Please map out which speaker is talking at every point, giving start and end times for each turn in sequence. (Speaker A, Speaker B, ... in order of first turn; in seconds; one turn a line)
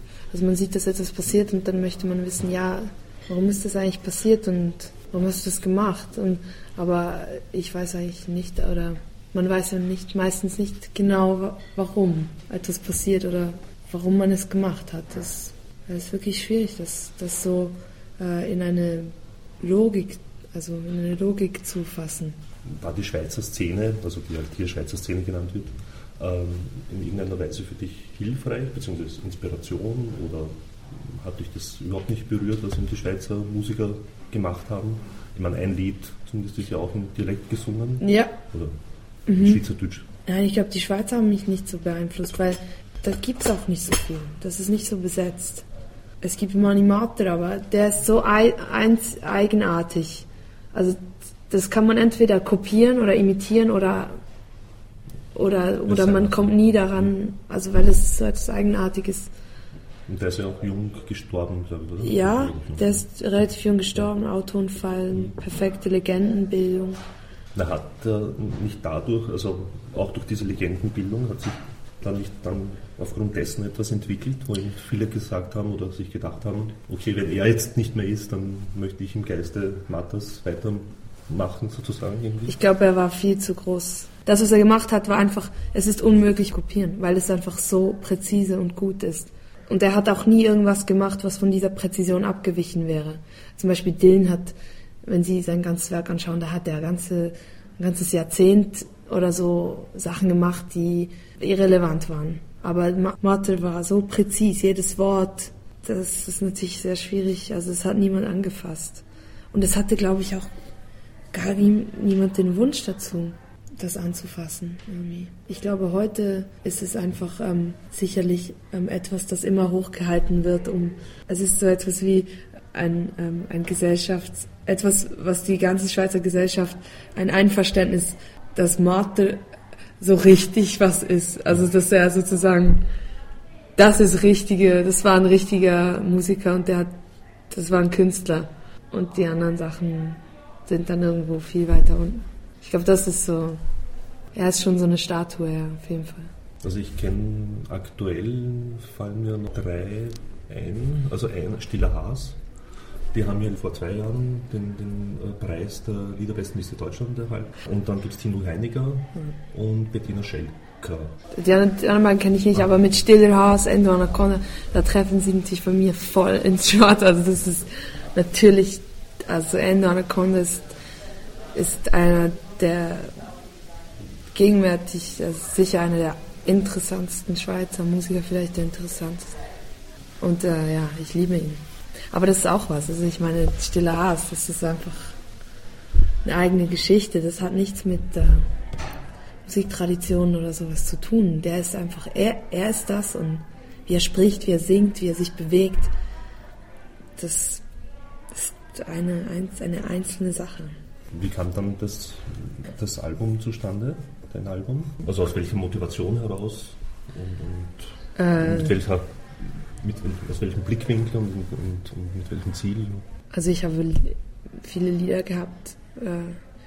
Speaker A: 0.3-22.4
Speaker B: 22.6-38.7
Speaker A: 38.0-38.4
Speaker A: 39.3-39.6
Speaker B: 39.3-40.1
Speaker A: 40.2-45.6
Speaker A: 46.2-54.2
Speaker A: 55.3-59.3
Speaker B: 55.9-57.1
Speaker B: 60.1-63.0
Speaker A: 62.0-67.0
Speaker B: 67.5-82.5
Speaker A: 82.5-110.5
Speaker A: 111.3-129.4
Speaker A: 130.0-132.8
Speaker A: 133.8-136.9
Speaker A: 137.5-143.6
Speaker A: 144.3-146.3
Speaker B: 146.6-152.4
Speaker B: 153.1-161.1
Speaker A: 161.3-170.7
Speaker A: 171.5-173.1
Speaker A: 174.3-179.4
Speaker A: 180.2-185.2
Speaker A: 186.2-188.5
Speaker A: 189.4-195.9
Speaker A: 197.2-197.6
Speaker A: 198.3-200.8
Speaker B: 201.1-213.0
Speaker A: 208.2-208.8
Speaker A: 213.3-216.4